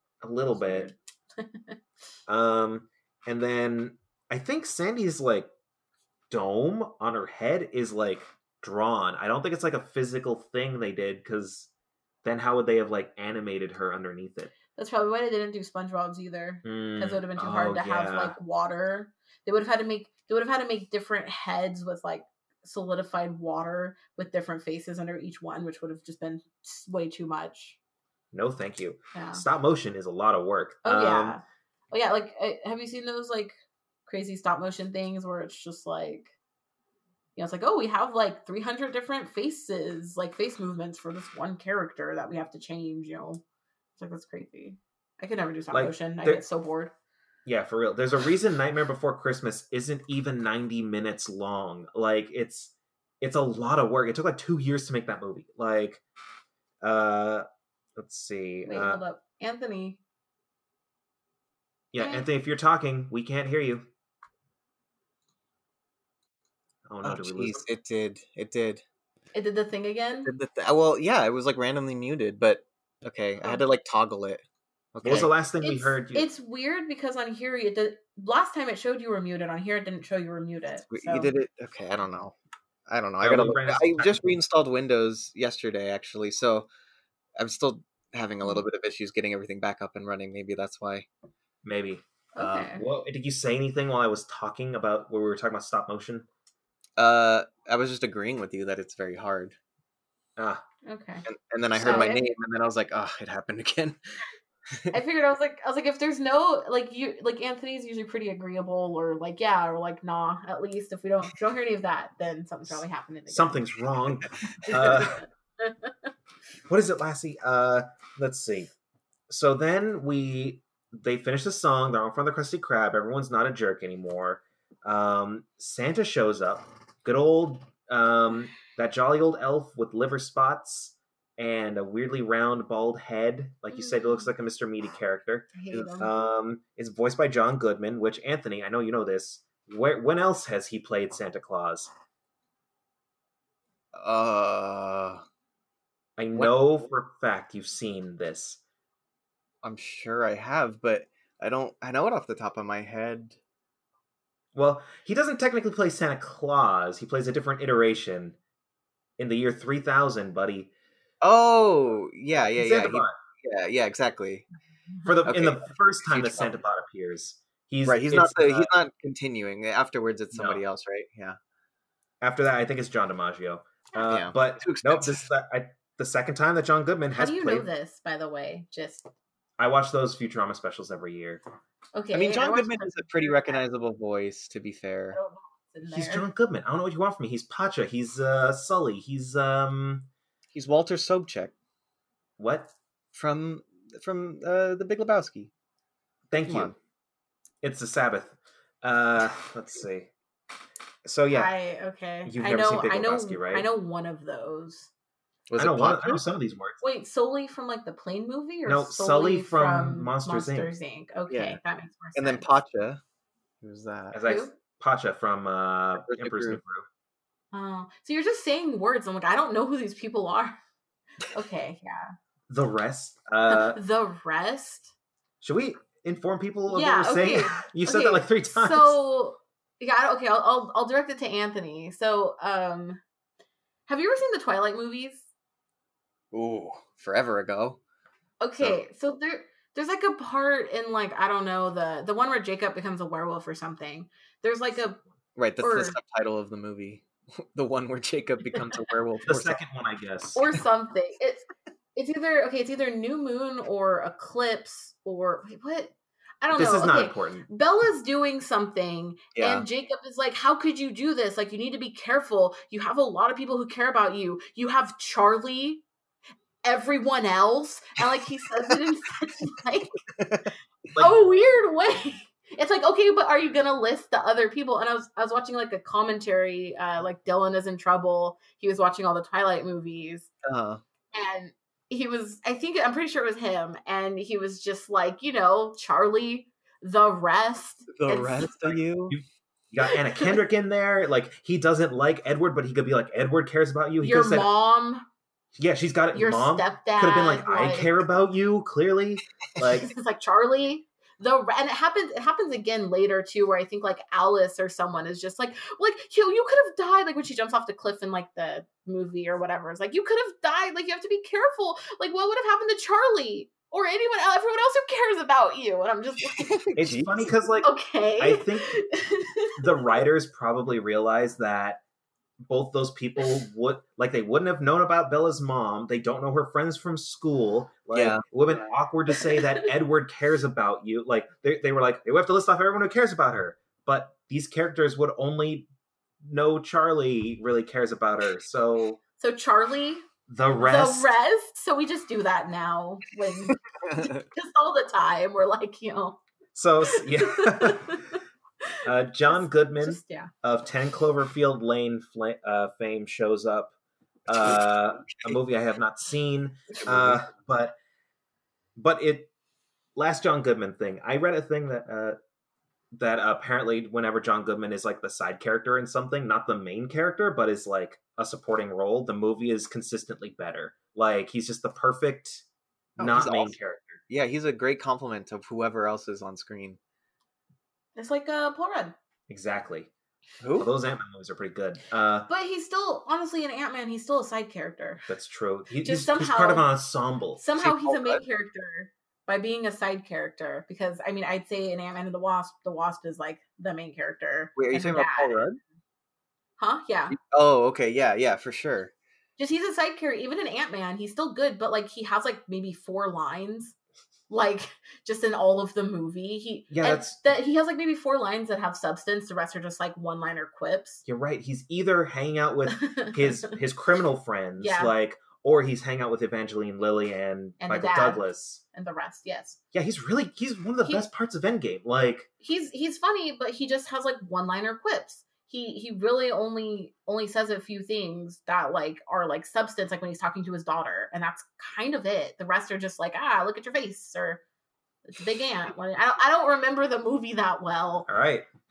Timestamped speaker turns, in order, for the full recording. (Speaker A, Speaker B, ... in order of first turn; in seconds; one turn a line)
Speaker A: 0.2-0.9
Speaker B: 0.5-1.8
Speaker A: 2.3-5.5
Speaker A: 6.3-11.7
Speaker A: 12.2-14.6
Speaker B: 14.7-27.8
Speaker A: 16.6-18.4
Speaker A: 28.3-31.4
Speaker B: 29.1-29.4
Speaker B: 30.8-36.3
Speaker B: 37.4-43.4
Speaker B: 44.0-46.9
Speaker A: 45.7-46.4
Speaker A: 47.5-56.0
Speaker A: 56.8-59.0
Speaker B: 58.6-60.0
Speaker A: 61.9-63.9
Speaker B: 62.0-62.3
Speaker A: 66.9-67.7
Speaker C: 67.0-68.8
Speaker B: 69.3-70.3
Speaker C: 70.2-74.4
Speaker C: 74.9-75.3
Speaker A: 75.0-76.3
Speaker B: 75.6-81.3
Speaker C: 80.9-82.3
Speaker C: 82.9-86.7
Speaker A: 83.2-84.2
Speaker C: 87.4-91.1
Speaker A: 91.6-92.0
Speaker B: 92.3-92.8
Speaker C: 92.4-92.7
Speaker A: 92.5-96.3
Speaker C: 97.0-99.6
Speaker A: 100.4-100.6
Speaker B: 100.8-101.3
Speaker C: 101.3-104.0
Speaker B: 101.8-102.2
Speaker B: 104.9-113.8
Speaker A: 113.3-115.2
Speaker C: 114.2-115.1
Speaker B: 114.7-115.9
Speaker A: 116.7-118.7
Speaker A: 119.3-141.9
Speaker B: 133.7-134.3
Speaker B: 135.5-136.1
Speaker C: 143.9-145.2
Speaker A: 146.2-148.6
Speaker C: 149.6-153.4
Speaker A: 154.5-158.4
Speaker A: 159.2-160.7
Speaker C: 161.2-164.5
Speaker A: 162.6-163.1
Speaker A: 165.1-168.7
Speaker C: 165.2-166.5
Speaker C: 167.9-171.4
Speaker A: 170.3-170.6
Speaker A: 172.2-177.7
Speaker C: 174.0-175.3
Speaker B: 177.1-179.1
Speaker A: 179.6-181.4
Speaker B: 181.9-183.6
Speaker C: 182.1-185.2
Speaker B: 185.1-186.3
Speaker A: 185.8-190.1
Speaker C: 190.5-191.5
Speaker A: 192.4-192.7
Speaker C: 193.1-195.5
Speaker A: 196.3-196.7
Speaker C: 196.5-196.8
Speaker A: 197.6-200.1
Speaker A: 201.1-201.5
Speaker B: 201.3-204.9
Speaker A: 202.3-203.7
Speaker C: 205.5-206.2
Speaker A: 205.6-206.8
Speaker B: 206.8-212.6
Speaker A: 208.7-210.7
Speaker C: 211.3-211.6
Speaker C: 212.2-213.0
Speaker C: 213.6-214.2
Speaker A: 214.1-216.9
Speaker B: 214.2-214.5
Speaker C: 216.0-216.6
Speaker B: 217.5-220.6
Speaker B: 221.3-222.1
Speaker A: 222.5-223.8
Speaker B: 223.5-224.9
Speaker A: 225.4-229.0
Speaker B: 226.7-233.0
Speaker B: 233.9-235.3
Speaker C: 236.3-237.8
Speaker B: 238.4-245.0
Speaker C: 245.4-249.6
Speaker B: 245.6-246.0
Speaker A: 249.3-250.4
Speaker B: 250.4-265.8
Speaker A: 256.5-257.4
Speaker C: 259.4-259.7
Speaker B: 266.6-270.0
Speaker C: 270.1-270.5
Speaker B: 271.0-280.3
Speaker C: 280.4-280.8
Speaker B: 281.1-288.8
Speaker C: 287.9-289.2
Speaker A: 289.1-294.5
Speaker B: 289.8-290.4
Speaker B: 294.0-295.0
Speaker A: 295.6-299.9
Speaker B: 296.1-298.0
Speaker B: 299.8-316.6
Speaker C: 316.2-317.4
Speaker A: 316.8-318.7
Speaker B: 317.6-319.9
Speaker A: 319.6-321.8
Speaker A: 322.4-335.7
Speaker C: 327.9-328.2
Speaker A: 336.2-339.0
Speaker B: 339.2-346.2
Speaker A: 340.3-341.1
Speaker C: 343.5-344.3
Speaker A: 346.6-348.1
Speaker B: 346.9-348.2
Speaker A: 348.8-353.7
Speaker B: 349.3-350.3
Speaker A: 354.3-357.8
Speaker C: 356.7-357.2
Speaker A: 358.8-359.3
Speaker A: 359.9-362.2
Speaker A: 362.9-372.4
Speaker C: 373.0-373.6
Speaker A: 373.0-374.0
Speaker C: 374.1-376.8
Speaker B: 378.0-378.9
Speaker A: 379.3-379.9
Speaker C: 380.4-380.7
Speaker A: 380.6-382.3
Speaker B: 382.3-385.1
Speaker A: 385.1-387.4
Speaker B: 385.8-386.7
Speaker B: 387.4-395.5
Speaker C: 387.6-388.2
Speaker C: 394.6-395.6
Speaker B: 396.6-397.2
Speaker C: 397.1-398.9
Speaker B: 399.4-403.8
Speaker B: 404.3-411.0
Speaker A: 406.7-407.2
Speaker A: 411.1-418.6
Speaker B: 412.7-413.4
Speaker B: 414.6-414.9
Speaker B: 417.6-419.6
Speaker A: 419.7-422.3
Speaker B: 422.4-434.4
Speaker B: 435.1-438.1
Speaker A: 438.1-438.5